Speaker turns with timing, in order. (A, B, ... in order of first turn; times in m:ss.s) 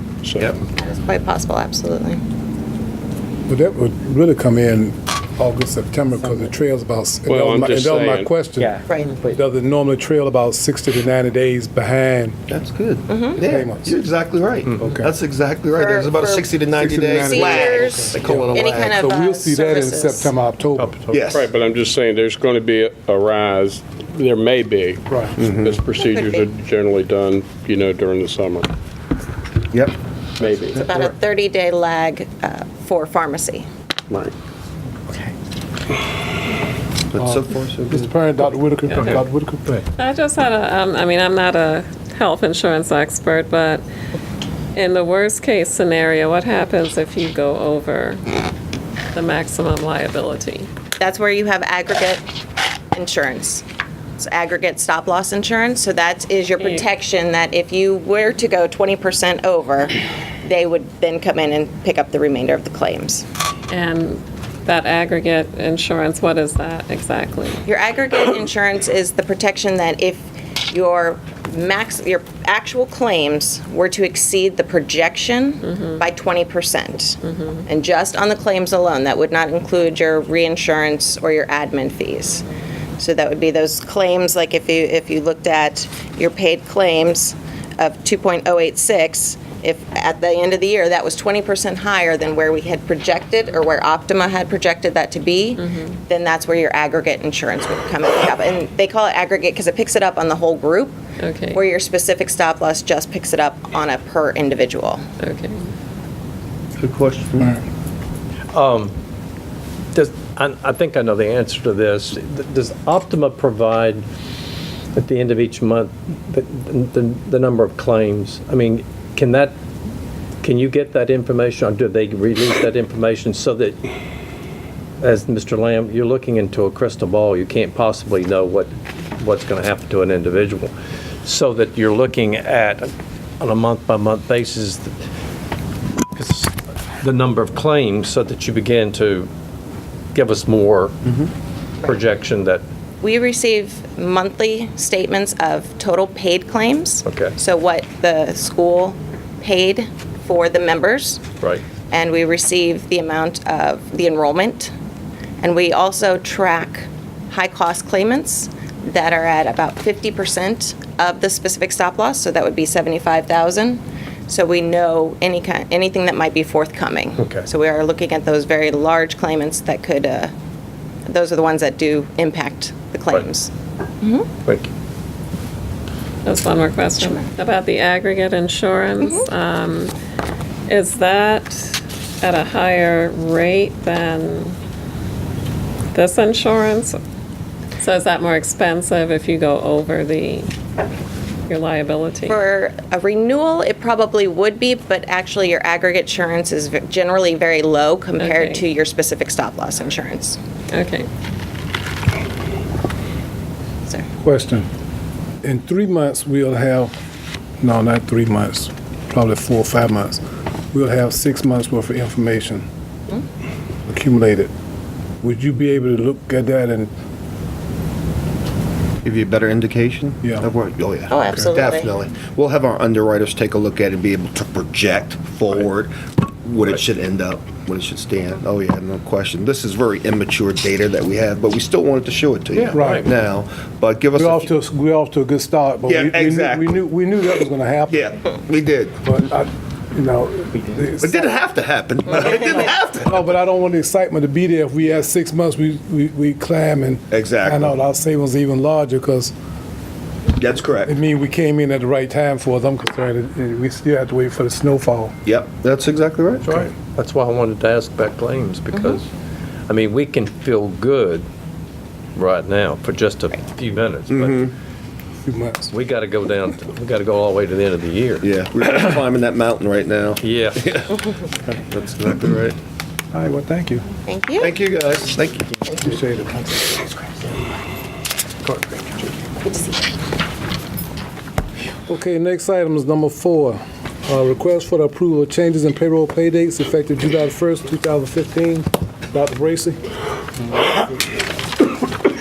0:00.2-0:00.6 A
0:00.7-0:02.2 B
0:03.5-0:08.8 C
0:07.3-0:08.3 A
0:08.9-0:09.2 B
0:09.3-0:12.4 C
0:12.5-0:19.1 D
0:13.1-0:13.5 B
0:13.5-0:13.9 C
0:14.8-0:15.1 C
0:15.7-0:16.5 B
0:16.9-0:21.0 C
0:17.1-0:20.3 B
0:20.8-0:21.4 E
0:21.1-0:21.5 D
0:21.3-0:28.7 A
0:25.4-0:25.8 D
0:25.9-0:26.5 B
0:29.7-0:30.9 D
0:30.4-0:31.0 A
0:30.8-0:33.7 B
0:37.1-0:38.2 D
0:38.0-0:39.7 C
0:38.9-0:39.2 F
0:40.0-0:43.8 F
0:44.8-0:48.2 F
0:49.1-0:50.7 F
0:51.0-0:52.2 B
0:52.9-0:53.6 B
0:54.2-1:03.2 B
0:56.6-0:56.9 F
1:03.7-1:07.6 F
1:07.7-1:22.4 B
1:15.6-1:16.0 F
1:17.2-1:17.6 F
1:23.0-1:41.0 B
1:35.6-1:35.9 F
1:41.2-1:41.6 F
1:41.5-1:45.0 B
1:45.2-1:45.6 F
1:46.8-1:47.6 D
1:48.5-1:48.9 E
1:49.9-1:54.0 E
1:55.0-1:59.6 E
2:00.4-2:03.8 E
2:05.0-2:10.7 E
2:11.2-2:14.9 E
2:16.2-2:19.3 E
2:20.1-2:21.0 E
2:21.8-2:22.6 E
2:23.0-2:31.2 B
2:27.0-2:27.4 E
2:31.9-2:34.7 B
2:35.4-2:50.3 B
2:47.2-2:47.5 E
2:51.1-2:54.3 B
2:54.4-2:54.7 E
2:56.2-2:59.9 F
2:57.0-2:57.3 B
2:59.0-2:59.3 B
3:00.7-3:04.6 F
3:05.9-3:07.0 F
3:07.8-3:10.5 F
3:11.5-3:12.4 F
3:12.3-3:20.4 B
3:18.2-3:18.6 F
3:20.7-3:21.1 F
3:24.2-3:24.7 C
3:25.4-3:26.9 C
3:27.6-3:30.2 C
3:30.7-3:32.6 C
3:33.9-3:34.5 C
3:35.2-3:36.9 C
3:39.0-3:54.6 D
3:41.1-3:41.9 B
3:52.6-3:53.1 E
3:52.8-3:53.0 C
3:54.2-3:57.9 C
3:55.8-3:56.8 D
3:57.9-3:59.0 D
3:59.0-4:01.2 C
4:01.0-4:03.4 D
4:03.1-4:09.3 C
4:07.1-4:07.8 D
4:10.4-4:11.0 D
4:10.9-4:15.2 C
4:15.3-4:16.5 D
4:16.4-4:19.1 E
4:18.7-4:19.0 B
4:19.7-4:21.3 E
4:22.2-4:24.5 E
4:24.1-4:24.5 D
4:25.3-4:25.7 C
4:25.7-4:28.3 E
4:28.2-4:32.6 D
4:30.2-4:30.7 E
4:33.1-4:33.9 C
4:34.0-4:34.5 B
4:34.4-4:35.6 D
4:35.9-4:36.2 C
4:41.9-4:49.8 C